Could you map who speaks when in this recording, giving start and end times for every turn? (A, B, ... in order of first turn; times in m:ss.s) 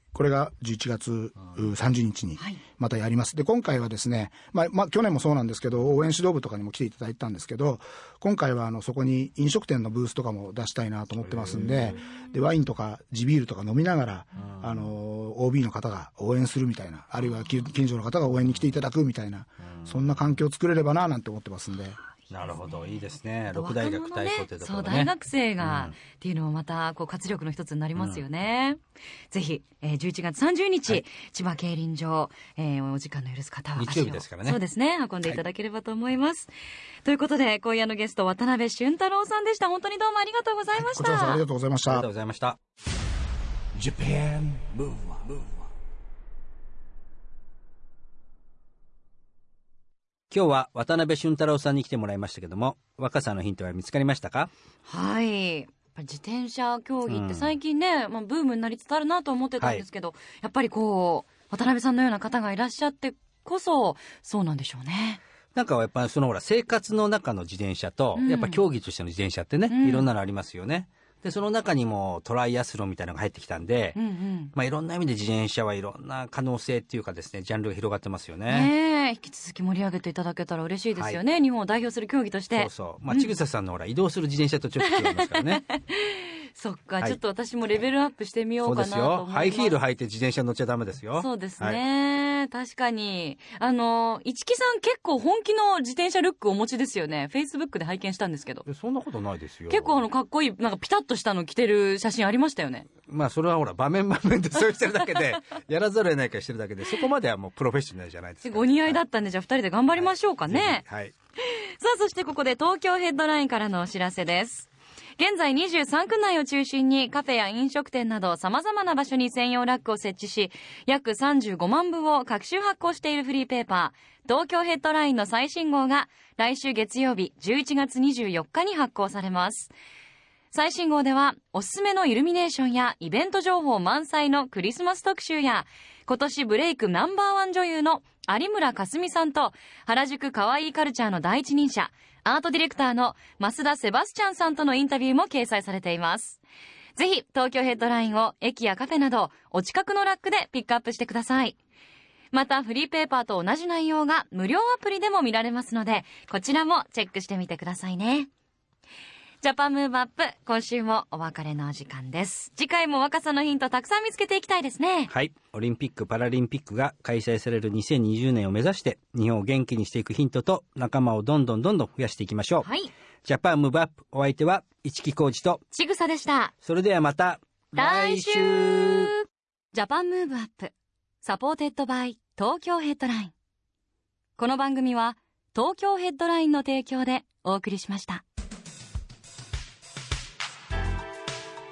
0:00.1-0:22.0 A
0:11.3-0:12.0 B
0:14.4-0:14.9 B
0:19.6-0:20.4 B
0:22.3-0:26.0 B
0:22.3-0:36.5 C
0:28.0-0:28.2 B
0:33.8-0:34.6 B
0:37.0-0:41.4 C
0:40.8-0:42.1 A
0:41.8-0:42.6 B
0:43.8-0:45.7 D
0:50.3-0:54.5 B
0:54.9-1:05.2 C
0:57.1-0:57.6 B
1:05.6-1:14.0 B
1:08.2-1:08.6 C
1:09.7-1:10.1 C
1:14.0-1:14.5 C
1:14.5-1:18.7 B
1:18.5-1:23.3 C
1:22.5-1:25.6 B
1:24.8-1:29.8 C
1:28.6-1:31.8 B
1:31.2-1:38.7 C
1:38.7-1:40.0 B
1:39.7-1:42.9 C
1:43.1-1:49.0 B
1:48.4-1:50.8 C
1:50.0-1:51.1 B
1:51.4-2:09.7 C
2:10.5-2:26.4 C
2:27.0-2:31.6 C
2:32.3-2:38.3 C
2:39.4-2:45.1 C
2:45.1-2:52.7 B
2:52.6-2:52.9 C
2:53.2-2:55.6 B
2:55.7-2:56.5 C
2:56.6-2:59.1 B
2:57.8-3:03.3 C
3:04.4-3:08.2 C